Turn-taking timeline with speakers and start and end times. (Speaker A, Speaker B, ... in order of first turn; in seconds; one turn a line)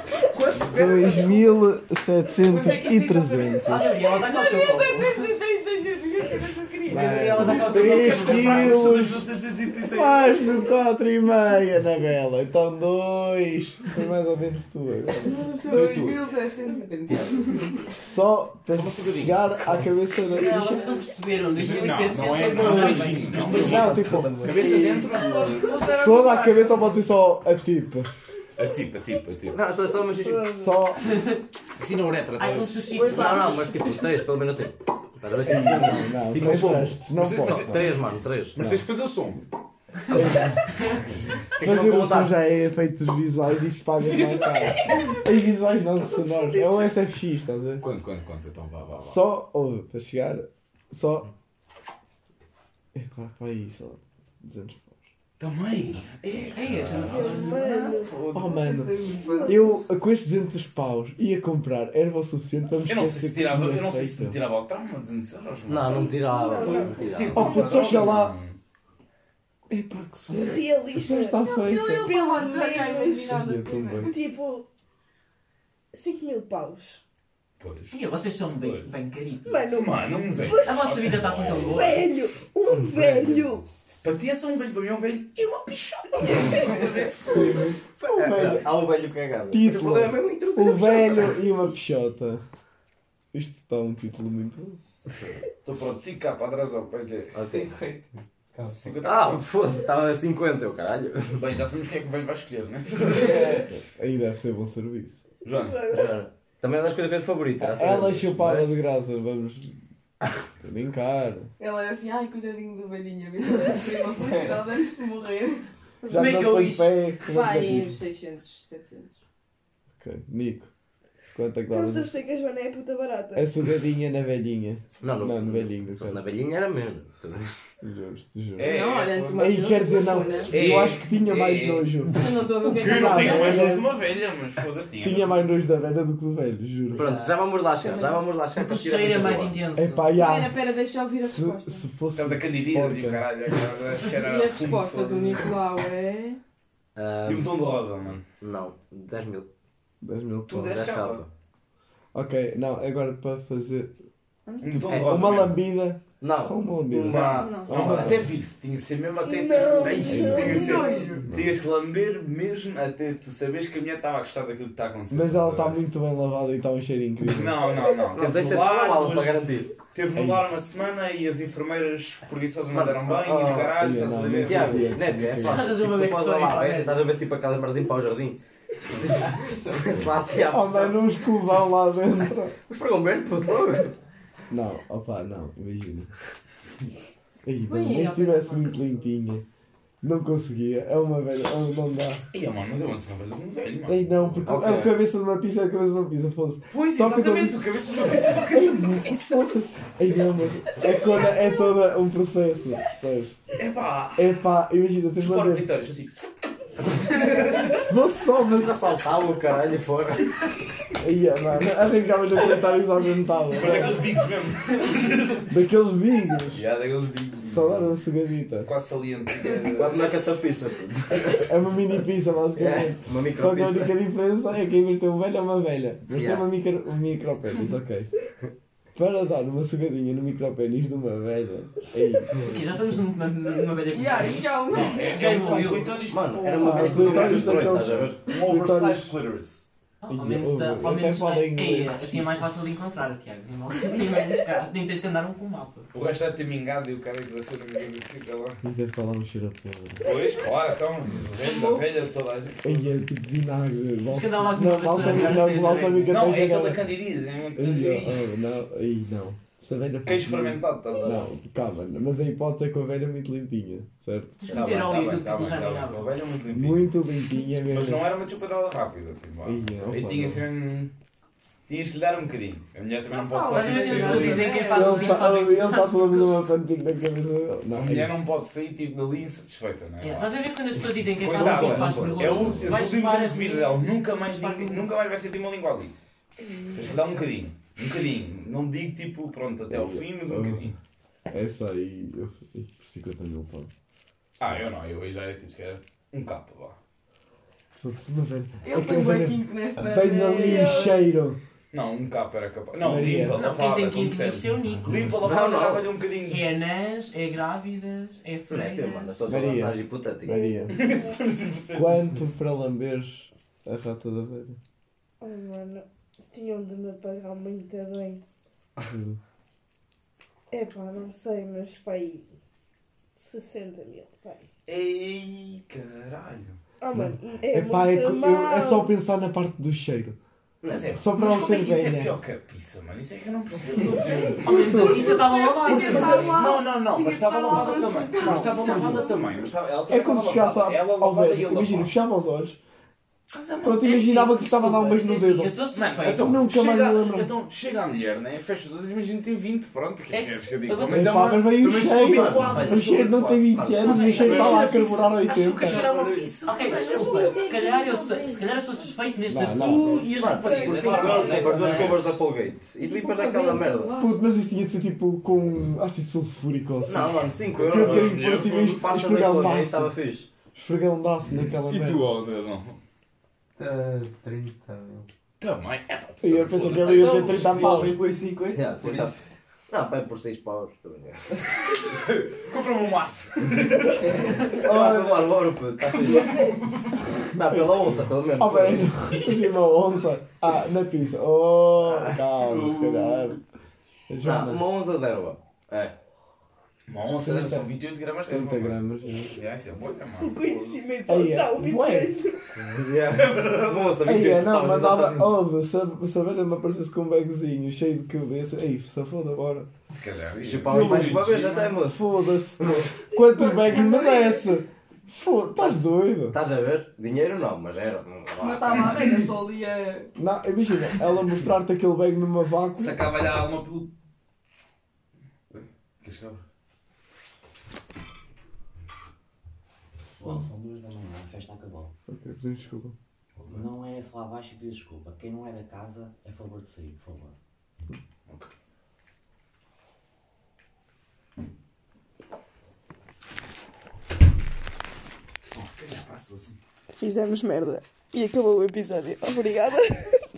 Speaker A: 0.2-1.4
Speaker B: 0.5-3.9
Speaker C: 2.4-5.3
Speaker D: 4.2-7.2
Speaker B: 6.8-9.2
Speaker C: 7.0-9.2
Speaker A: 7.5-10.6
Speaker B: 9.8-15.9
Speaker D: 15.4-17.7
Speaker A: 15.7-16.2
Speaker B: 18.0-21.0
Speaker A: 18.7-19.9
Speaker C: 20.2-24.2
Speaker A: 21.5-25.9
Speaker B: 22.6-24.6
Speaker E: 23.5-24.8
Speaker D: 24.9-26.7
Speaker B: 25.8-28.1
Speaker A: 28.6-29.7
Speaker E: 29.5-30.5
Speaker F: 30.2-30.6
Speaker B: 30.5-31.0
Speaker A: 31.8-32.8
Speaker C: 32.3-33.5
Speaker E: 32.9-38.6
Speaker F: 33.0-33.6
Speaker B: 35.4-37.9
Speaker A: 37.1-39.4
Speaker B: 38.6-38.9
Speaker B: 40.1-40.6
Speaker E: 41.5-42.3
Speaker B: 41.6-47.9
Speaker A: 44.0-45.3
Speaker A: 46.2-46.9
Speaker A: 47.8-49.2
Speaker B: 49.0-51.3
Speaker B: 52.9-55.0
Speaker A: 55.4-57.4
Speaker C: 56.5-57.8
Speaker F: 56.9-58.3
Speaker D: 57.9-59.5
Speaker A: 58.1-58.3
Speaker B: 58.3-64.4
Speaker F: 59.2-59.7
Speaker A: 62.9-68.6
Speaker E: 65.7-67.5
Speaker F: 66.0-67.9
Speaker B: 67.3-68.4
Speaker B: 69.7-72.2
Speaker F: 70.3-73.3
Speaker D: 71.7-74.1
Speaker G: 72.8-73.3
Speaker B: 73.2-74.2
Speaker F: 74.1-74.7
Speaker F: 75.9-77.0
Speaker A: 77.6-78.0
Speaker C: 77.9-79.7
Speaker A: 78.5-78.9
Speaker F: 79.4-83.7
Speaker A: 79.7-82.0
Speaker C: 80.5-82.0
Speaker E: 82.9-83.4
Speaker A: 84.0-88.3
Speaker B: 86.4-86.7
Speaker B: 87.2-88.8
Speaker E: 88.3-91.4
Speaker B: 89.5-92.4
Speaker B: 93.3-94.8
Speaker A: 95.6-97.7
Speaker E: 97.3-97.7
Speaker H: 98.5-99.0
Speaker A: 98.7-99.5
Speaker E: 99.0-101.4
Speaker A: 101.3-103.7
Speaker B: 103.1-105.2
Speaker A: 105.4-105.8
Speaker E: 105.9-108.8
Speaker B: 107.6-109.8
Speaker B: 110.6-111.5
Speaker D: 111.6-115.7
Speaker B: 116.1-118.0
Speaker C: 116.1-117.0
Speaker D: 117.3-119.2
Speaker B: 120.0-120.7
Speaker B: 121.3-122.1
Speaker F: 121.7-123.5
Speaker B: 123.3-126.2
Speaker E: 125.0-127.5
Speaker B: 127.8-128.7
Speaker A: 128.6-129.6
Speaker D: 128.7-129.0
Speaker G: 128.8-130.5
Speaker B: 129.3-133.9
Speaker F: 129.8-130.2
Speaker A: 130.5-132.1
Speaker G: 132.2-133.7
Speaker A: 132.6-135.5
Speaker C: 133.1-133.6
Speaker F: 133.3-133.6
Speaker B: 135.0-137.1
Speaker E: 137.0-139.6
Speaker C: 137.0-137.3
Speaker C: 138.5-140.2
Speaker B: 139.7-140.6
Speaker G: 140.2-141.8
Speaker B: 141.2-143.3
Speaker A: 142.1-145.6
Speaker D: 144.3-144.9
Speaker G: 144.5-146.1
Speaker E: 146.9-147.5
Speaker A: 147.2-148.2
Speaker E: 148.4-149.5
Speaker B: 150.0-150.7
Speaker A: 150.5-151.3
Speaker E: 150.5-151.3
Speaker B: 152.1-153.9
Speaker A: 154.6-155.6
Speaker B: 154.7-158.3
Speaker E: 154.9-155.4
Speaker E: 156.2-157.7
Speaker A: 157.1-165.8
Speaker F: 159.2-161.0
Speaker B: 159.9-161.6
Speaker D: 160.5-161.2
Speaker B: 165.1-167.7
Speaker A: 167.2-174.9
Speaker E: 168.1-169.7
Speaker B: 170.1-170.5
Speaker E: 172.7-173.7
Speaker B: 173.7-175.8
Speaker E: 174.4-181.7
Speaker C: 175.4-177.1
Speaker B: 179.9-182.6
Speaker E: 182.2-184.0
Speaker B: 184.5-186.1
Speaker B: 187.4-189.4
Speaker F: 187.7-188.4
Speaker G: 187.8-188.7
Speaker B: 190.0-192.2
Speaker A: 192.3-194.9
Speaker B: 193.8-197.6
Speaker E: 194.4-194.9
Speaker A: 196.7-199.0
Speaker B: 198.4-203.4
Speaker A: 203.6-204.3
Speaker B: 204.2-205.7
Speaker A: 205.2-206.2
Speaker E: 207.2-207.6
Speaker B: 207.4-208.8
Speaker E: 208.4-210.3
Speaker B: 211.0-214.1
Speaker A: 213.5-215.5
Speaker B: 215.5-216.7
Speaker A: 216.5-217.9
Speaker B: 217.4-218.7
Speaker A: 218.6-220.2
Speaker E: 219.7-221.5
Speaker B: 221.3-228.1
Speaker E: 222.5-224.0
Speaker E: 226.2-226.4
Speaker B: 228.9-232.6
Speaker C: 232.4-236.0
Speaker D: 233.9-235.2
Speaker A: 234.7-239.7
Speaker E: 236.1-238.2
Speaker B: 236.5-239.1
Speaker C: 240.0-245.9
Speaker B: 240.1-242.4
Speaker A: 245.9-248.6
Speaker B: 248.6-250.2
Speaker A: 250.0-252.9
Speaker B: 252.6-257.0
Speaker C: 254.1-256.2
Speaker A: 255.0-255.3
Speaker A: 256.1-258.6
Speaker B: 257.5-264.4
Speaker A: 260.0-261.2
Speaker E: 261.0-261.2
Speaker C: 264.4-266.1
Speaker A: 264.5-266.9
Speaker B: 266.5-268.1
Speaker A: 267.7-270.9
Speaker B: 269.4-270.4
Speaker A: 271.7-274.7
Speaker F: 273.1-275.0
Speaker C: 273.4-276.5
Speaker B: 274.6-278.1
Speaker A: 277.7-280.4
Speaker C: 280.0-284.9
Speaker A: 281.1-285.9
Speaker B: 281.2-282.9
Speaker F: 286.5-286.8
Speaker A: 286.7-290.8
Speaker B: 289.7-290.7
Speaker B: 291.3-293.7
Speaker A: 294.4-296.8
Speaker B: 297.7-301.4
Speaker D: 298.6-300.9
Speaker G: 299.9-300.9
Speaker A: 301.7-306.5
Speaker B: 302.8-303.4
Speaker C: 303.3-305.3
Speaker E: 305.2-305.9
Speaker C: 306.1-309.1
Speaker E: 308.5-310.3
Speaker B: 309.2-310.8
Speaker F: 310.2-311.2
Speaker A: 310.7-312.0
Speaker B: 311.7-314.6
Speaker F: 315.2-318.2
Speaker B: 318.9-319.2
Speaker F: 320.5-322.3
Speaker F: 323.2-324.4
Speaker A: 324.7-326.6
Speaker F: 326.8-328.9
Speaker B: 326.9-330.2
Speaker E: 330.6-330.9
Speaker A: 330.7-335.3
Speaker B: 330.9-332.2
Speaker B: 333.7-336.2
Speaker C: 334.4-336.5
Speaker D: 335.3-339.0
Speaker G: 335.4-336.5
Speaker A: 335.9-341.9
Speaker F: 336.0-336.3
Speaker G: 338.2-339.2
Speaker B: 339.9-342.6
Speaker A: 343.3-343.8
Speaker B: 343.6-347.4
Speaker C: 343.7-346.5
Speaker A: 345.7-357.0
Speaker C: 350.1-351.1
Speaker B: 350.8-355.9
Speaker E: 351.5-352.8
Speaker E: 353.5-354.5
Speaker C: 353.8-354.8
Speaker C: 355.6-362.0
Speaker G: 356.7-358.9
Speaker D: 356.8-358.4
Speaker B: 359.2-359.9
Speaker A: 359.7-362.2
Speaker E: 359.9-364.0
Speaker D: 360.6-361.4
Speaker D: 362.9-364.1
Speaker B: 364.0-369.9
Speaker E: 366.8-370.3
Speaker A: 367.4-368.8
Speaker B: 370.5-372.1
Speaker A: 371.2-372.8
Speaker H: 373.6-375.1
Speaker A: 375.4-377.5
Speaker B: 376.2-378.0
Speaker H: 376.8-379.2
Speaker E: 378.5-381.4
Speaker A: 381.8-384.5
Speaker E: 384.0-386.4
Speaker B: 384.5-385.4
Speaker A: 385.8-387.3
Speaker E: 387.3-389.3
Speaker B: 387.4-393.4
Speaker E: 391.8-392.2
Speaker A: 392.4-393.3
Speaker B: 394.1-394.6
Speaker E: 394.2-395.9
Speaker A: 396.9-398.8
Speaker B: 397.2-397.7
Speaker B: 398.2-399.4
Speaker A: 399.3-400.8
Speaker F: 400.2-402.5
Speaker B: 401.1-402.2
Speaker E: 402.7-405.4
Speaker A: 403.3-403.9
Speaker B: 404.0-409.7
Speaker A: 409.9-411.8
Speaker E: 410.4-412.0
Speaker B: 410.6-416.4
Speaker D: 413.9-414.2
Speaker E: 415.5-419.0
Speaker D: 418.4-420.1
Speaker A: 418.7-419.2
Speaker B: 420.1-423.0
Speaker A: 422.8-423.9
Speaker A: 425.5-426.4
Speaker A: 430.2-430.5
Speaker G: 430.2-431.9
Speaker B: 432.1-432.9
Speaker A: 433.4-433.9
Speaker G: 433.9-437.3
Speaker A: 438.3-438.5
Speaker A: 445.5-446.6
Speaker F: 447.0-450.2